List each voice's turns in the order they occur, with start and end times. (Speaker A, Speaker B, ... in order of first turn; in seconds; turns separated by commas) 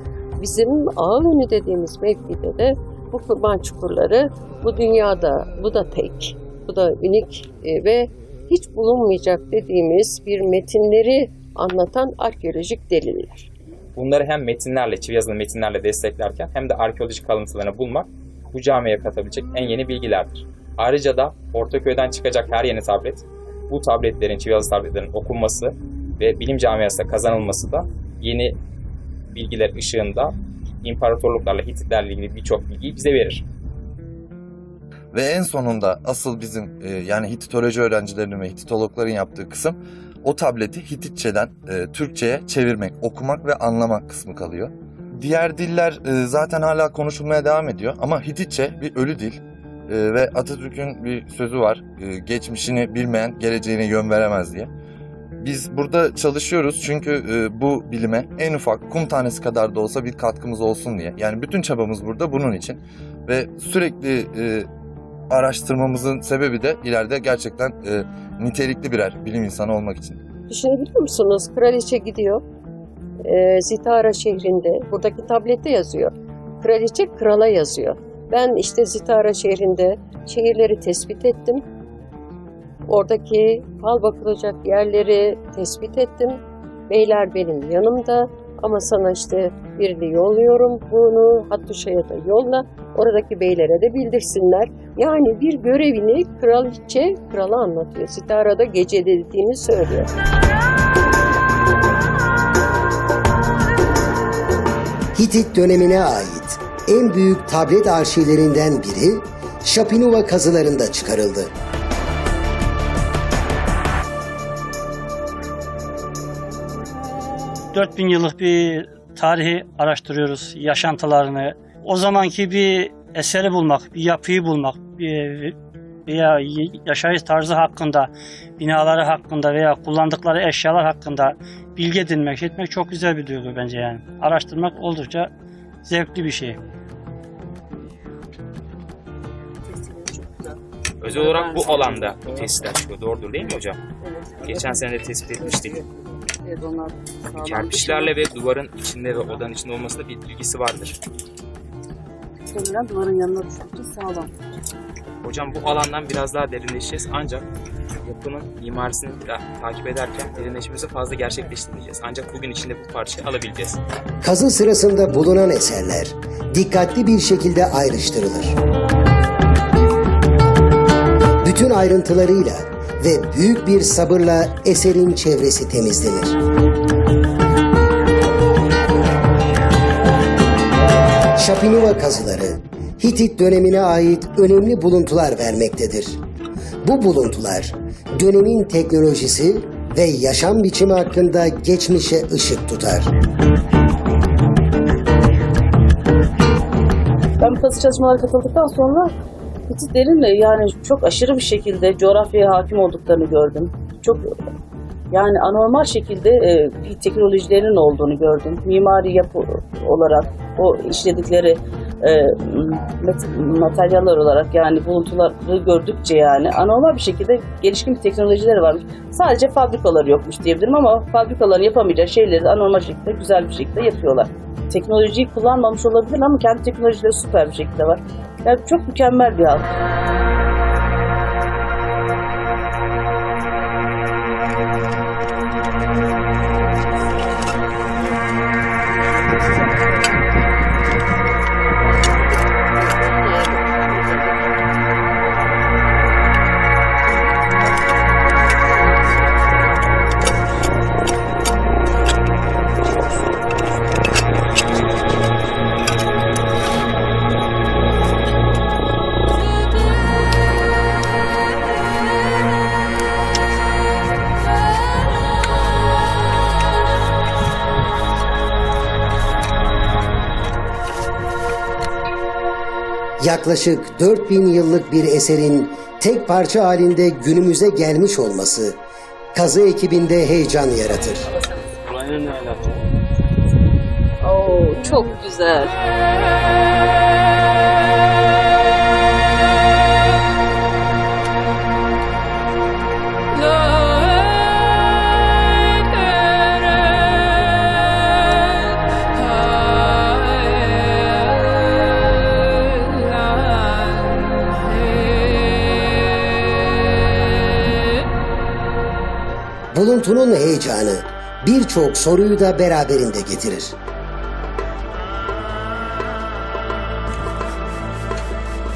Speaker A: 0.4-13.5, Speaker B: 14.0-28.6, Speaker B: 29.3-33.5, Speaker C: 35.1-54.7, Speaker C: 55.4-64.7, Speaker C: 65.3-70.2, Speaker A: 70.5-72.4, Speaker A: 73.2-81.6, Speaker A: 82.9-100.1, Speaker D: 105.2-111.5, Speaker E: 117.7-125.6, Speaker E: 126.1-135.3, Speaker E: 135.9-136.6, Speaker B: 141.0-143.8, Speaker F: 141.4-142.4, Speaker B: 144.4-145.8, Speaker F: 146.7-148.0, Speaker B: 147.4-151.0, Speaker F: 152.7-154.3, Speaker B: 155.2-157.5, Speaker B: 158.1-163.8, Speaker D: 164.2-168.6, Speaker D: 171.4-176.3, Speaker D: 181.4-186.2, Speaker D: 186.8-193.1, Speaker F: 197.6-199.1, Speaker F: 199.9-203.8, Speaker F: 205.3-206.3, Speaker F: 207.0-209.2, Speaker F: 213.7-224.2, Speaker F: 224.9-228.0, Speaker F: 228.6-229.6, Speaker A: 243.1-243.9, Speaker D: 273.2-278.8, Speaker D: 279.3-281.3, Speaker A: 284.2-285.7, Speaker D: 309.7-313.8